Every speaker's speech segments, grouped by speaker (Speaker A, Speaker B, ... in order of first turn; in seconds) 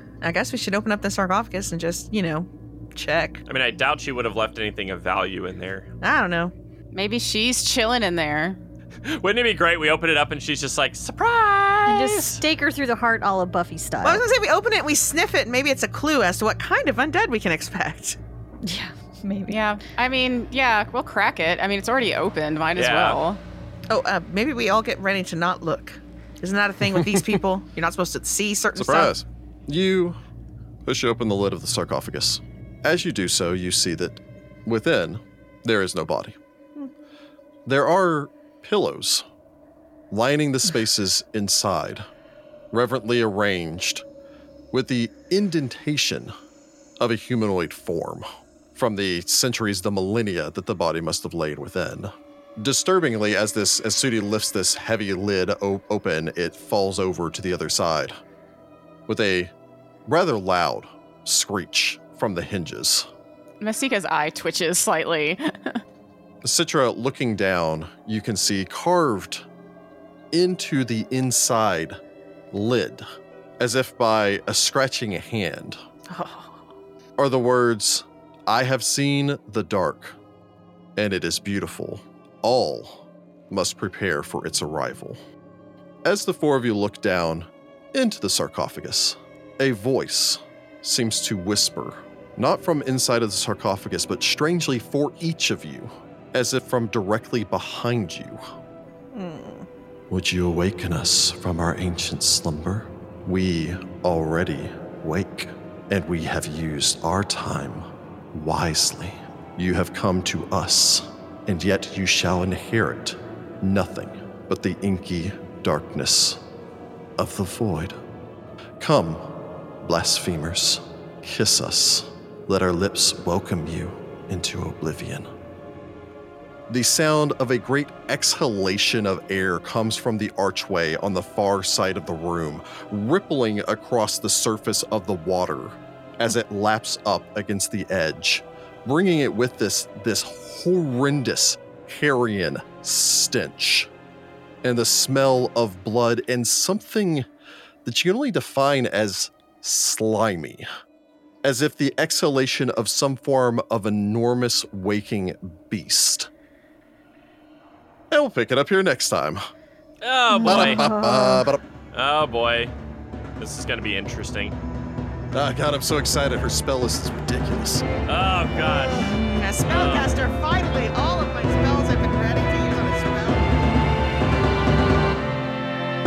Speaker A: 0.2-3.4, 6.0-6.5, 14.0-18.2, 23.9-29.1, 76.1-76.6, 99.1-99.7, 168.9-173.6
Speaker B: 3.5-5.9, 9.0-12.4, 22.8-23.2, 160.0-160.9, 161.9-162.7, 163.4-164.6, 168.1-169.1, 169.7-170.1
Speaker C: 6.9-8.6, 19.5-23.4, 63.6-65.8
Speaker D: 11.9-14.2, 18.6-19.6, 160.4-161.5
Speaker E: 27.0-27.3, 28.8-30.2, 30.9-36.4, 37.7-39.2, 40.1-42.1, 42.7-44.0, 44.7-46.3, 47.0-58.2, 59.1-59.5, 60.1-63.1, 66.4-69.5, 70.3-72.0, 72.5-73.0, 73.6-75.8, 77.2-80.2, 81.0-85.2, 86.0-98.4, 100.1-116.4, 117.2-118.0, 118.8-125.3, 126.7-143.9, 144.6-147.3, 147.8-150.7, 151.4-156.3, 158.1-159.4, 160.4-161.6, 165.3-167.9